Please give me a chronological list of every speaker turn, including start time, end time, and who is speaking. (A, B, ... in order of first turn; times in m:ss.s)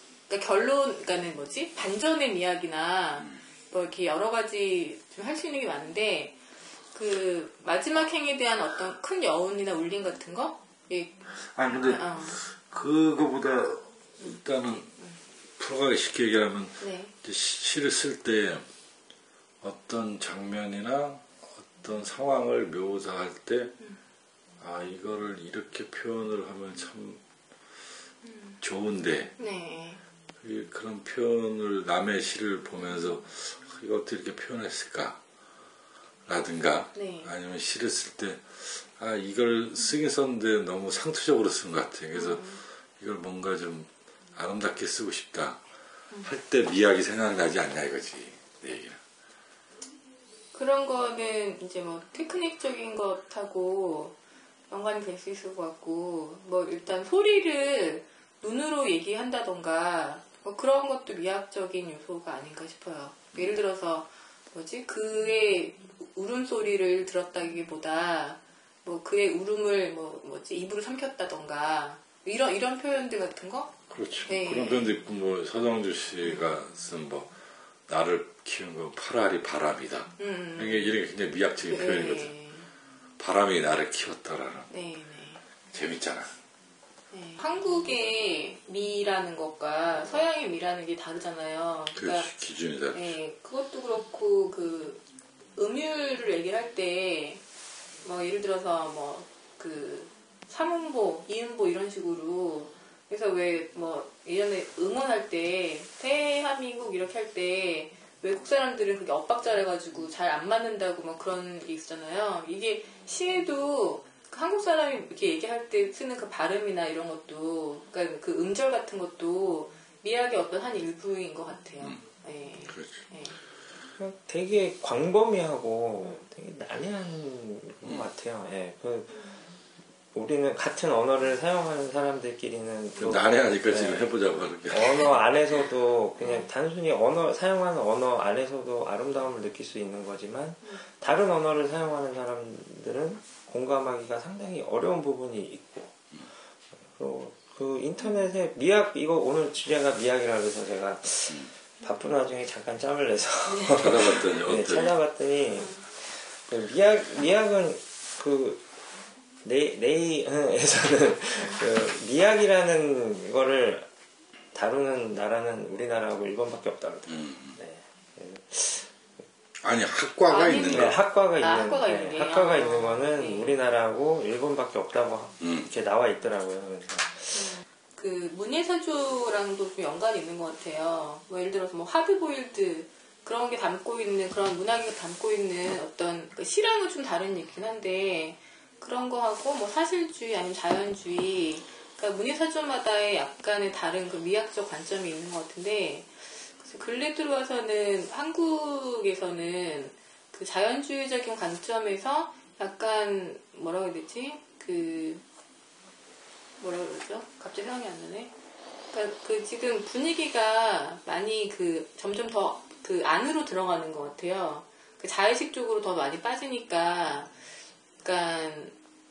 0:00.3-0:06.4 A
0:06.9-0:12.4 A
0:11.5-0:14.9 B
0:15.6-0:18.6 B
0:16.8-0:17.1 A
0:19.6-0:23.8 B
0:24.6-0:27.2 B
0:28.2-0:28.6 A
0:28.6-0:29.3 B
0:29.4-0:30.0 A
0:30.4-0:35.2 B
0:36.2-0:45.6 B
0:36.9-0:37.3 A
0:42.1-0:42.6 A
0:46.2-0:49.0 B
0:50.5-0:54.2 A
0:54.7-1:13.7 A
1:13.9-1:17.3 B
1:14.3-1:14.9 A
1:17.9-1:22.3 B
1:20.2-1:20.9 A
1:21.7-1:22.7 A
1:23.2-1:24.7 B
1:24.7-1:25.4 A
1:25.7-1:26.3 B
1:27.1-1:32.3 A
1:31.9-1:33.2 B
1:32.9-1:35.0 A
1:35.6-1:37.4 A
1:38.0-2:03.4 A
2:02.7-2:03.0 B
2:04.0-2:09.2 C
2:10.1-2:14.1 C
2:13.0-2:15.2 B
2:14.7-2:26.0 C
2:26.8-2:38.6 C
2:33.5-2:34.2 A
2:33.7-2:35.0 B
2:39.4-2:43.9 C
2:44.5-2:48.9 C
2:47.1-2:47.6 B
2:49.6-2:51.0 B
2:50.3-2:53.6 A
2:50.7-2:57.5 C
2:55.4-2:55.7 B
2:57.3-3:25.2 A
3:26.6-3:28.3 A
3:28.9-3:37.3 A
3:38.0-3:38.8 A